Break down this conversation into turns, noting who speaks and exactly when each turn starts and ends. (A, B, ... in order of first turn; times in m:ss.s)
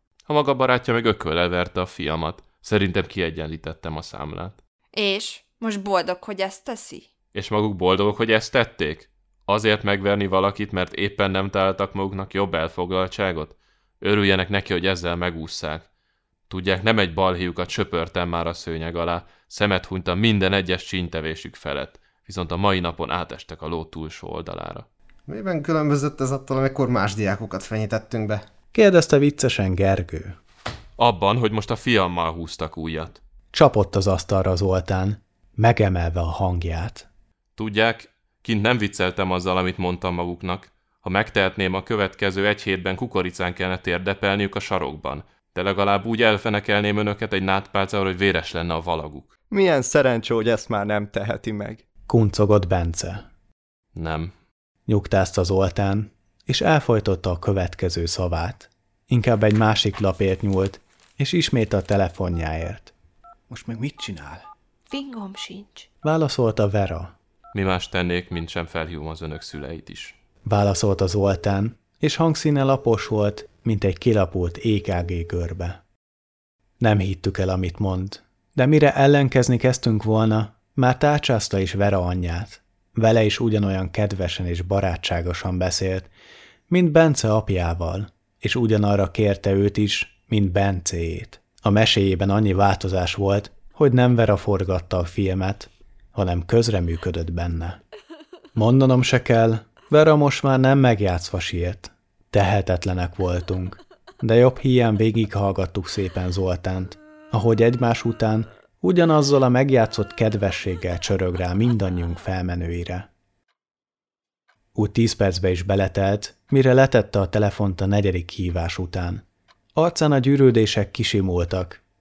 0:00.3-0:04.6 A
0:04.9-0:07.1 B
0:07.3-0:15.8 A
0:16.5-0:24.8 A
0:25.3-0:28.4 C
0:28.7-0:30.4 D
0:31.0-0:33.2 A
0:33.5-0:37.1 D
0:37.6-0:49.3 A
0:49.5-0:51.8 E
0:52.1-0:53.2 D
0:53.9-0:54.3 A
0:54.9-1:02.9 D
1:03.5-1:04.4 D
1:04.9-1:05.9 B
1:06.0-1:07.1 D
1:07.5-1:10.1 A
1:10.4-1:15.8 D
1:16.8-1:26.1 D
1:26.7-1:37.8 D
1:38.6-1:53.1 D
1:54.7-1:59.2 D
1:59.8-2:01.8 D